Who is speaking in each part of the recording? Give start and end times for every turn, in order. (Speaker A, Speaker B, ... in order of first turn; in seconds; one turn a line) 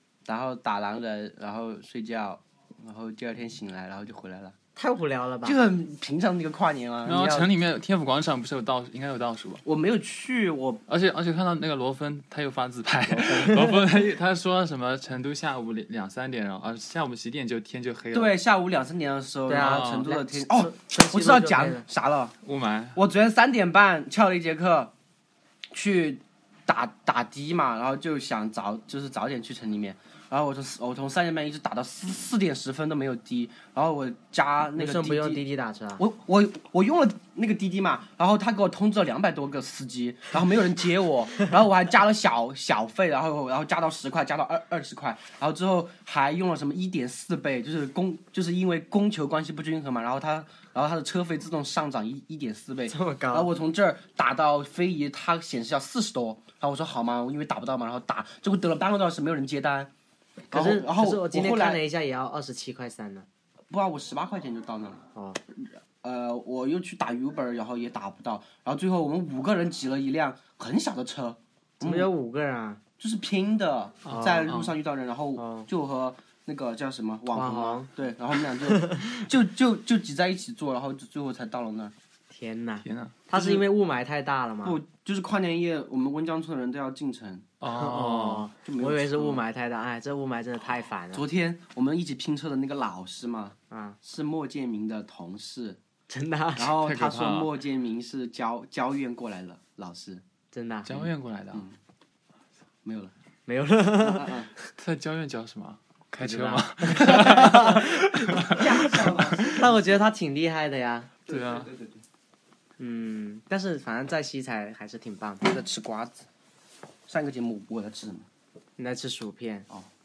Speaker A: 0.2-4.5
Speaker B: 4.8-5.6
Speaker A: 5.4-7.5
Speaker C: 7.0-9.6
Speaker A: 9.6-10.8
Speaker C: 10.9-18.4
Speaker B: 13.1-13.8
Speaker A: 18.1-22.3
Speaker B: 19.5-21.8
Speaker C: 19.6-20.1
Speaker C: 22.4-23.0
Speaker A: 22.9-24.9
Speaker A: 25.7-35.4
Speaker B: 34.8-36.0
Speaker A: 36.0-59.9
Speaker B: 52.9-53.5
Speaker A: 60.5-61.8
Speaker B: 60.5-63.3
Speaker A: 63.7-65.0
Speaker B: 65.1-65.4
Speaker A: 66.0-72.1
Speaker B: 71.8-72.8
Speaker A: 73.0-81.9
Speaker B: 74.1-74.5
Speaker C: 74.1-74.7
Speaker B: 75.4-75.7
Speaker B: 77.3-77.9
Speaker B: 78.7-79.1
Speaker B: 82.3-84.8
Speaker C: 82.8-83.1
Speaker A: 83.3-83.7
Speaker A: 84.6-87.5
Speaker C: 87.6-88.5
Speaker B: 87.6-91.2
Speaker A: 88.6-89.4
Speaker A: 91.1-95.8
Speaker B: 93.7-94.0
Speaker B: 96.1-96.7
Speaker A: 96.6-100.2
Speaker C: 96.8-97.5
Speaker B: 100.5-100.9
Speaker C: 100.8-101.7
Speaker A: 101.0-101.8
Speaker A: 102.8-103.1
Speaker B: 103.5-104.7
Speaker A: 104.0-104.5
Speaker C: 104.8-109.6
Speaker B: 106.2-108.6
Speaker A: 108.4-110.0
Speaker B: 109.5-111.1
Speaker A: 111.3-112.0
Speaker C: 111.3-111.7
Speaker B: 112.8-115.4
Speaker A: 115.4-116.2
Speaker A: 117.1-118.3
Speaker B: 118.8-119.7